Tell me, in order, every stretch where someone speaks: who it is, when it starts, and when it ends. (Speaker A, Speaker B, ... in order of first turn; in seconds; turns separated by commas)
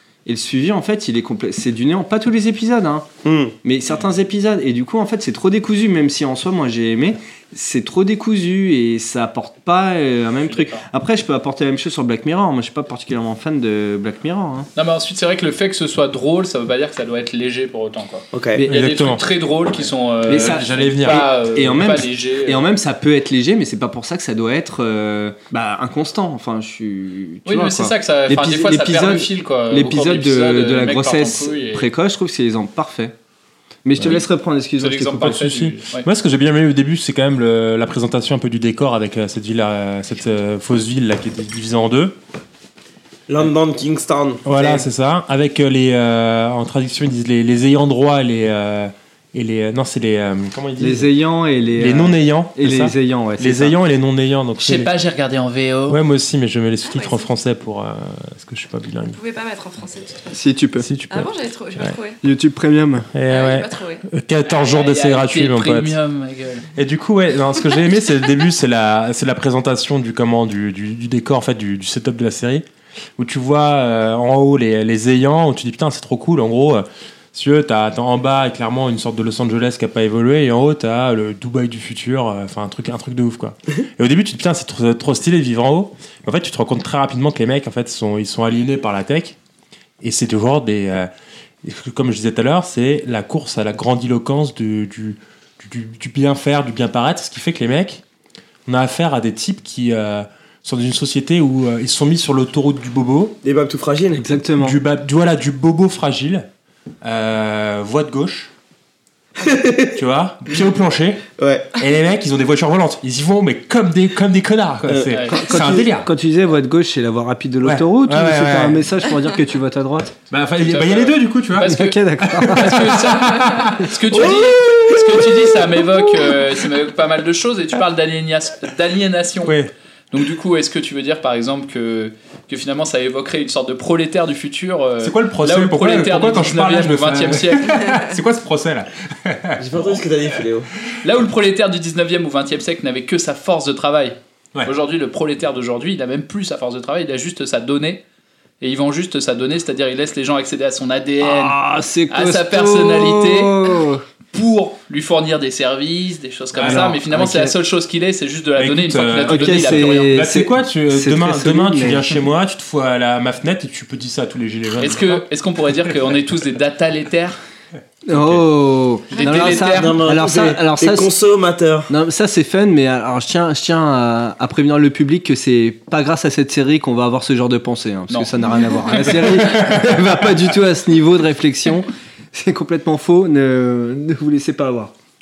Speaker A: 0.2-3.0, Speaker B: 3.2-3.5, Speaker A: 3.6-14.7, Speaker C: 10.4-10.8, Speaker C: 14.8-22.7, Speaker B: 18.3-18.6, Speaker D: 18.6-19.2, Speaker A: 20.3-33.1, Speaker D: 20.3-21.3, Speaker C: 27.4-31.9, Speaker A: 33.8-35.4, Speaker C: 34.8-36.0, Speaker D: 35.2-42.1, Speaker B: 43.3-44.9, Speaker D: 44.4-51.1, Speaker A: 50.8-53.8, Speaker D: 51.8-54.9, Speaker C: 54.6-56.0, Speaker D: 55.9-59.2, Speaker E: 56.8-57.2, Speaker E: 59.0-60.4, Speaker A: 60.3-60.9, Speaker D: 60.8-61.9, Speaker E: 61.1-62.2, Speaker A: 62.2-63.1, Speaker D: 63.1-66.0, Speaker E: 63.3-64.0, Speaker C: 64.5-66.7, Speaker D: 66.8-72.6, Speaker D: 73.2-89.4, Speaker D: 90.0-91.1, Speaker D: 91.6-98.0, Speaker D: 98.7-103.3, Speaker B: 103.4-104.3, Speaker A: 104.2-104.8, Speaker D: 104.6-106.5, Speaker D: 107.0-108.5, Speaker B: 109.4-110.0, Speaker D: 109.9-111.2, Speaker B: 111.4-111.8, Speaker D: 111.8-116.1, Speaker B: 114.9-115.8, Speaker A: 115.3-120.1, Speaker D: 117.6-118.9, Speaker D: 120.3-125.3, Speaker C: 120.6-129.6, Speaker A: 121.6-122.9, Speaker B: 124.1-125.3, Speaker D: 129.4-129.7, Speaker C: 130.1-137.8, Speaker D: 135.0-140.0, Speaker B: 139.6-140.7, Speaker C: 141.0-148.0, Speaker C: 148.6-151.6, Speaker A: 151.2-154.0, Speaker C: 152.1-153.8, Speaker C: 154.3-160.1, Speaker D: 156.6-157.0, Speaker A: 156.6-157.5, Speaker D: 158.6-165.2, Speaker A: 159.3-162.1, Speaker C: 164.8-167.4, Speaker A: 168.1-171.1, Speaker D: 168.1-168.4, Speaker C: 169.1-170.0, Speaker B: 169.2-171.9, Speaker A: 171.9-184.9, Speaker C: 178.1-179.2, Speaker D: 179.0-180.5